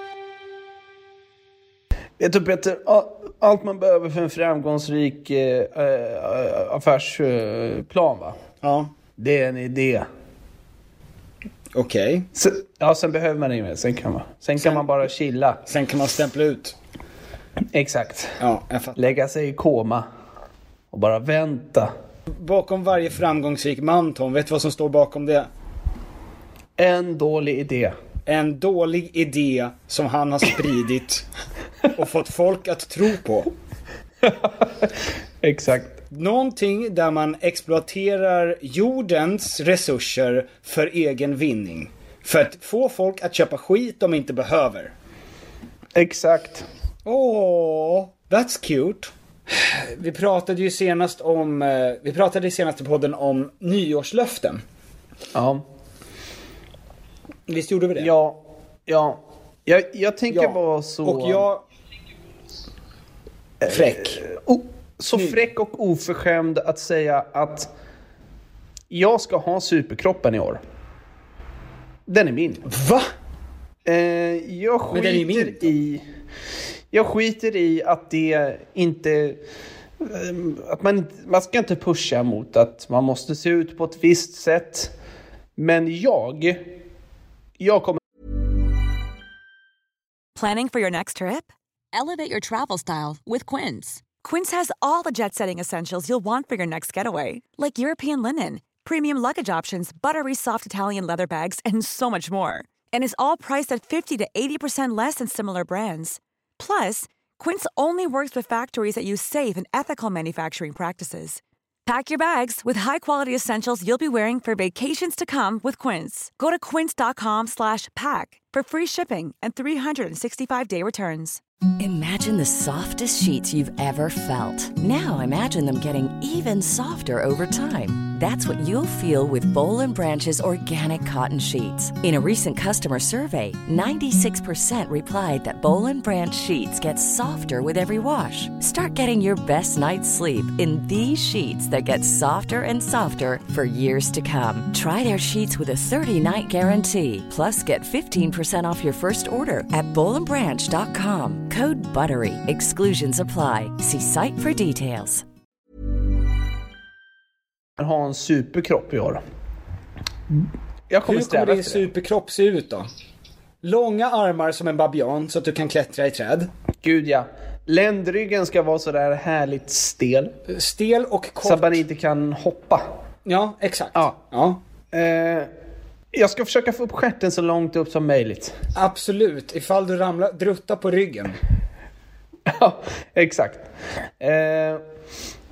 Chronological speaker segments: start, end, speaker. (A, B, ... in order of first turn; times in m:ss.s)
0:02.2-0:08.4 A
0:08.6-0:08.9 B
0:09.2-0:10.1 A
0:11.7-0:12.3 B
0:12.4-0:15.6 A
0:14.6-0:14.8 B
0:15.7-0:16.7 B
0:17.7-0:18.4 A
0:18.4-0:19.0 B
0:19.0-0:20.0 A
0:20.9-0:21.9 A
0:22.4-0:25.5 B
0:26.8-0:28.0 A
0:28.3-0:31.2 B
0:31.9-0:33.5 B
0:34.2-0:34.9 A
0:35.4-0:36.0 A
0:36.1-0:44.9 B
0:45.9-0:46.6 A
0:47.0-0:54.6 B
0:55.3-0:55.6 A
0:57.5-0:58.1 B
0:58.0-1:01.5 A
1:00.3-1:01.6 B
1:03.6-1:07.7 A
1:03.6-1:04.2 B
1:08.9-1:10.6 A
1:12.1-1:12.6 A
1:12.7-1:13.1 B
1:13.8-1:16.0 A
1:14.9-1:15.7 B
1:16.9-1:19.4 A
1:20.0-1:24.9 A
1:25.6-1:26.6 A
1:27.6-1:28.0 A
1:30.4-2:01.4 C
2:01.8-2:35.2 D
2:37.8-2:39.2 A
2:40.9-2:41.9 A
2:41.0-2:42.9 B
2:43.6-2:46.5 B
2:46.8-2:50.3 A
2:50.5-2:51.8 B
2:51.4-2:52.9 A
2:53.2-2:54.6 B
2:54.9-2:55.5 A
2:56.1-2:58.5 A
2:58.8-3:01.4 B
3:02.5-3:03.7 A
3:04.2-3:04.8 A